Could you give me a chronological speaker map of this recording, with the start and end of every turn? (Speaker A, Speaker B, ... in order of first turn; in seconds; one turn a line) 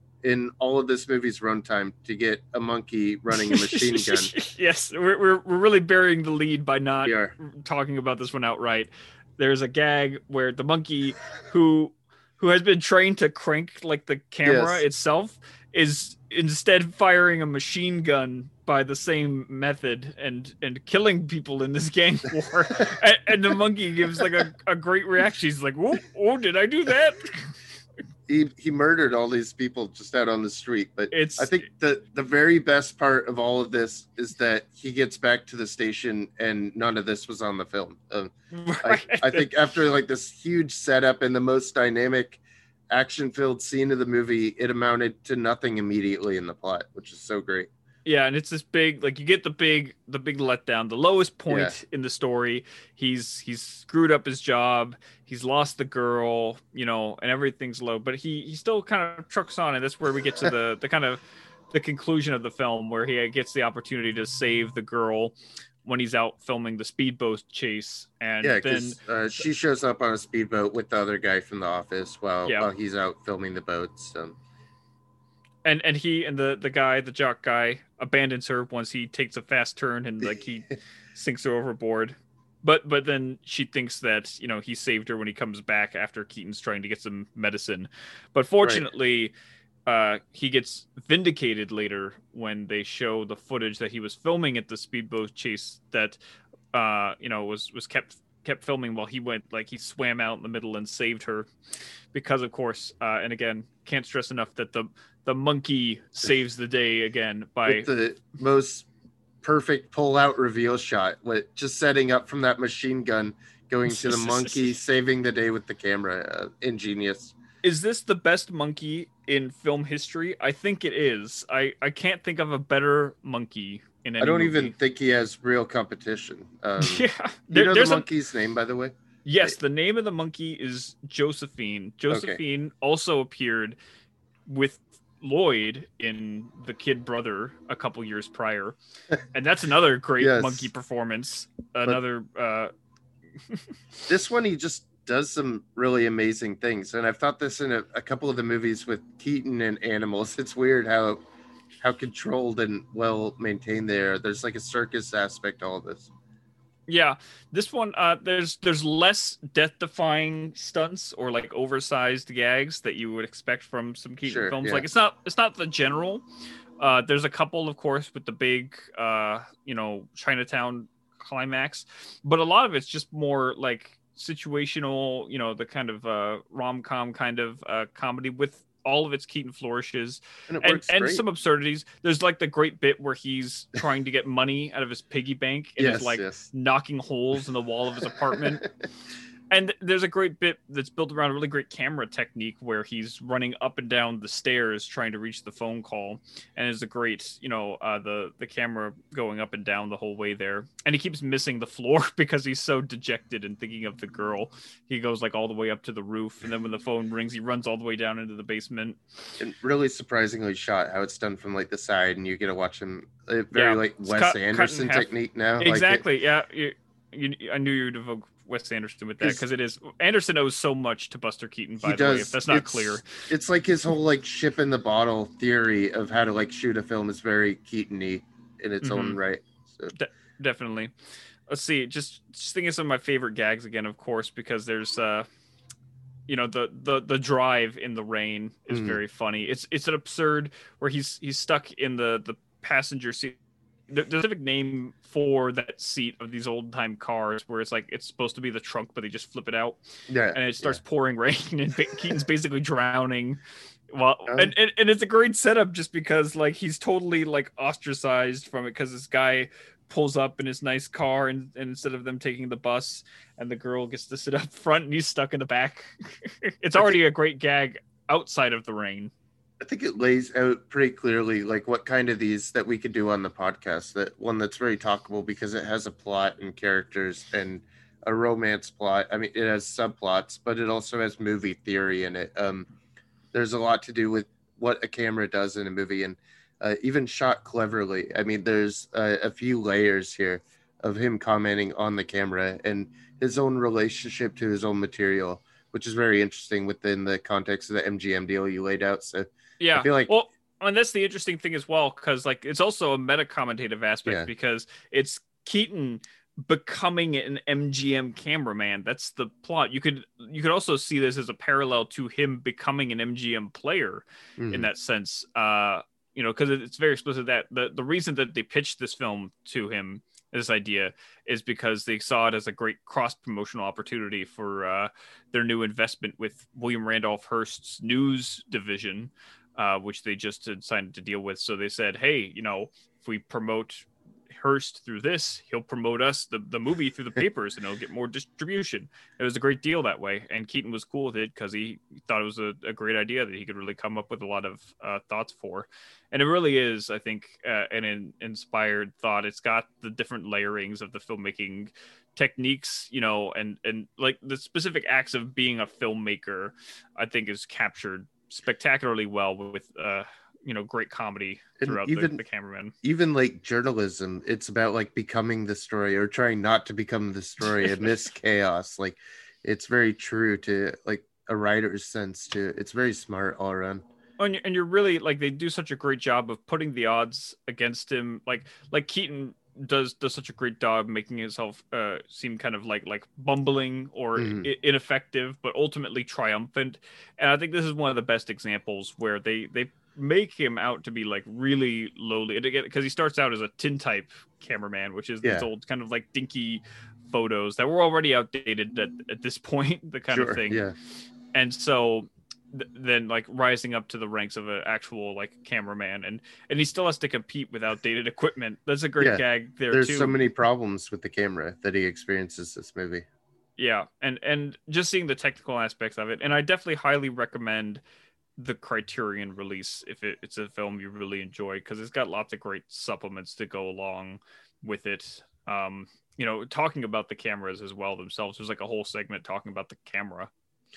Speaker A: 0.2-4.3
Speaker B: 3.3-27.5
Speaker A: 7.0-7.3
Speaker A: 14.4-14.8
Speaker A: 28.3-42.4
Speaker B: 31.1-31.6
Speaker B: 38.5-39.5
Speaker A: 42.9-47.7
Speaker B: 48.0-69.0
Speaker A: 51.5-51.8
Speaker A: 68.4-74.4
Speaker B: 75.6-89.3
Speaker A: 88.6-88.9
Speaker B: 89.8-96.2
Speaker B: 96.7-101.5
Speaker B: 102.1-107.9
Speaker A: 107.7-108.9
Speaker A: 109.4-117.3
Speaker B: 113.9-114.7
Speaker B: 117.6-124.7
Speaker A: 124.2-129.5
Speaker B: 126.8-128.1
Speaker B: 129.2-133.8
Speaker A: 132.1-132.4
Speaker B: 134.5-138.8
Speaker B: 139.3-142.7
Speaker A: 140.2-140.7
Speaker A: 144.1-151.2
Speaker A: 151.8-156.1
Speaker B: 156.9-166.2
Speaker A: 164.2-164.8
Speaker B: 166.8-188.7
Speaker A: 180.5-181.2
Speaker A: 185.8-186.5
Speaker A: 188.3-188.7
Speaker B: 189.5-209.0
Speaker A: 209.4-216.0
Speaker B: 213.5-223.0
Speaker A: 221.8-229.9
Speaker B: 228.8-229.2
Speaker B: 229.9-230.9
Speaker B: 231.5-235.3
Speaker B: 236.3-243.3
Speaker A: 238.7-239.0
Speaker B: 243.9-249.8
Speaker A: 250.1-250.8
Speaker B: 250.3-269.1
Speaker A: 254.3-254.5
Speaker A: 269.6-282.7
Speaker A: 283.3-300.1
Speaker B: 299.6-362.7
Speaker A: 314.4-314.7
Speaker A: 361.6-362.2
Speaker A: 362.8-373.8
Speaker B: 374.2-400.6
Speaker A: 384.2-384.5
Speaker A: 395.2-395.5
Speaker A: 400.1-400.7
Speaker B: 401.3-410.2
Speaker A: 409.0-413.1
Speaker B: 413.6-417.8
Speaker B: 418.4-430.3